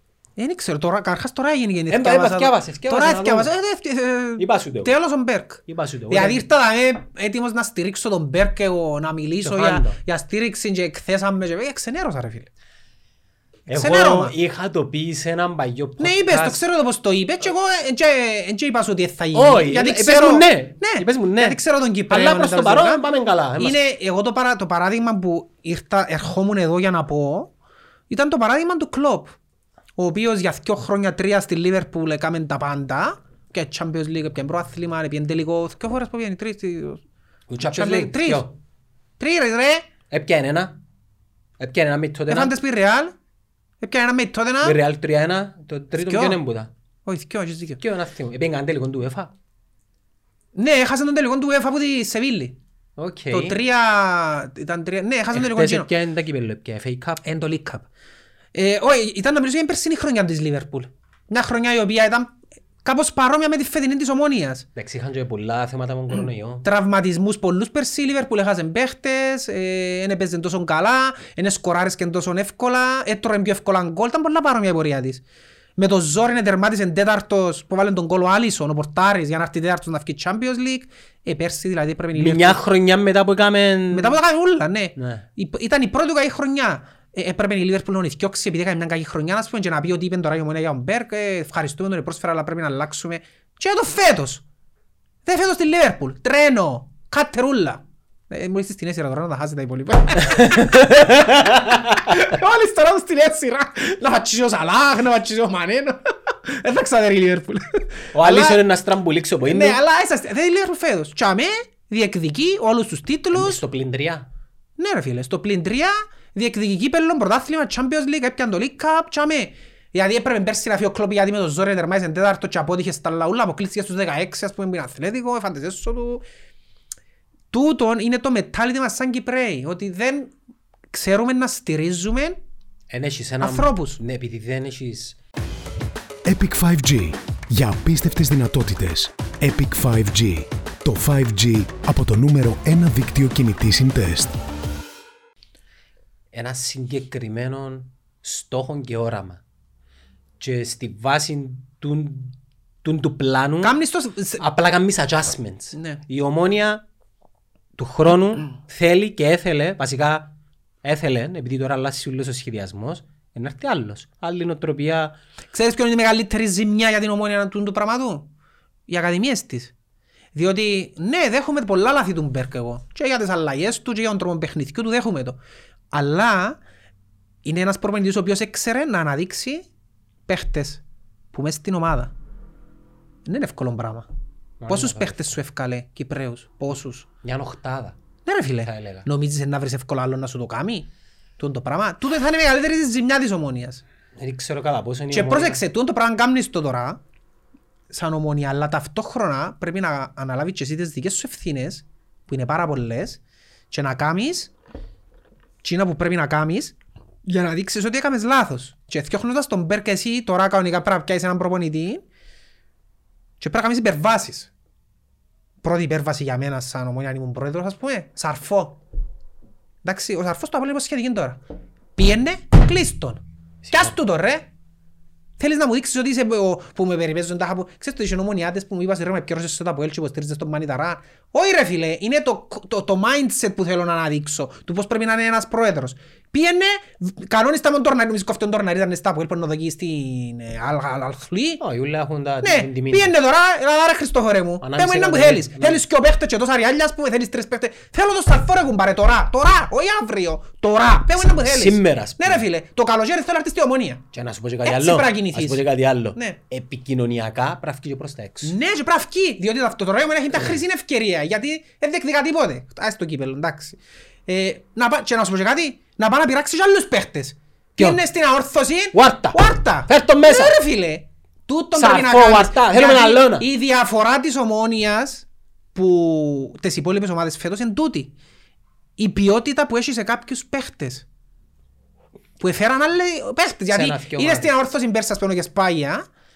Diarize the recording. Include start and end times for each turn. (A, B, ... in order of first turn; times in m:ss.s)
0:00.4-0:12.5 A
0:01.9-0:03.5 B
0:04.4-0:04.9 B
0:05.7-0:06.4 B
0:09.4-0:10.0 B
0:13.7-0:16.6 B
0:13.7-0:14.3 A
0:16.0-0:23.0 A
0:19.3-0:21.6 B
0:22.1-0:23.8 B
0:23.6-0:27.5 A
0:28.1-0:29.3 A
0:30.0-0:37.0 A
0:37.5-0:38.5 B
0:37.6-0:38.4 A
0:39.2-0:39.9 A
0:40.1-0:40.7 B
0:41.6-0:42.5 B
0:42.3-0:43.1 A
0:43.8-0:44.8 A
0:44.6-0:46.7 B
0:46.1-0:46.4 A
0:47.0-0:47.8 A
0:47.8-0:49.3 B
0:50.5-0:52.6 A
0:53.0-0:53.6 B
0:53.3-0:55.9 A
0:55.3-0:57.2 B
0:57.2-0:57.8 A
0:58.5-1:02.3 A
1:02.8-1:04.6 A
1:04.7-1:06.7 B
1:06.6-1:15.2 A
1:15.8-1:22.6 A
1:22.2-1:24.2 B
1:23.9-1:34.4 A
1:25.0-1:25.2 B
1:35.2-1:40.9 A
1:40.3-1:42.3 B
1:42.1-1:48.6 A
1:48.1-1:49.8 B
1:49.4-1:53.6 A
1:53.3-1:54.3 B
1:54.8-2:06.2 A
2:07.5-2:10.3 A
2:10.9-2:12.4 A
2:12.9-2:15.2 B
2:13.4-2:14.0 A
2:16.2-2:24.3 C
2:26.3-2:29.4 B
2:30.4-2:33.7 B
2:33.6-2:34.4 A
2:34.4-2:36.8 B
2:35.8-2:36.0 A
2:37.8-2:45.1 B
2:45.5-2:48.3 A
2:48.9-2:49.7 A
2:50.3-2:55.4 A
2:55.9-2:56.6 A
2:57.4-2:59.6 A
3:00.3-3:00.8 A
3:01.3-3:02.1 A
3:03.2-3:04.1 A
3:04.6-3:05.4 B
3:04.7-3:07.1 A
3:07.2-3:08.0 B
3:08.2-3:10.9 A
3:08.6-3:09.1 B
3:11.4-3:13.8 A
3:14.2-3:15.6 B
3:15.1-3:17.0 A
3:17.9-3:23.2 A
3:23.7-3:24.5 A
3:25.6-3:26.7 A
3:27.2-3:32.0 A
3:33.4-3:34.5 A
3:35.6-3:38.8 A
3:39.8-3:41.4 A
3:42.0-3:43.2 A
3:43.6-3:43.9 B
3:43.7-3:44.4 A
3:45.4-4:01.6 A
4:01.6-4:03.1 B
4:02.4-4:14.0 A
4:04.6-4:05.8 B
4:11.2-4:12.4 B
4:14.1-4:18.5 B
4:14.6-4:15.6 A
4:18.4-4:38.1 A
4:28.9-4:30.6 B
4:31.8-4:33.4 B
4:39.0-4:41.0 A
4:42.4-4:46.1 A
4:43.7-4:44.5 B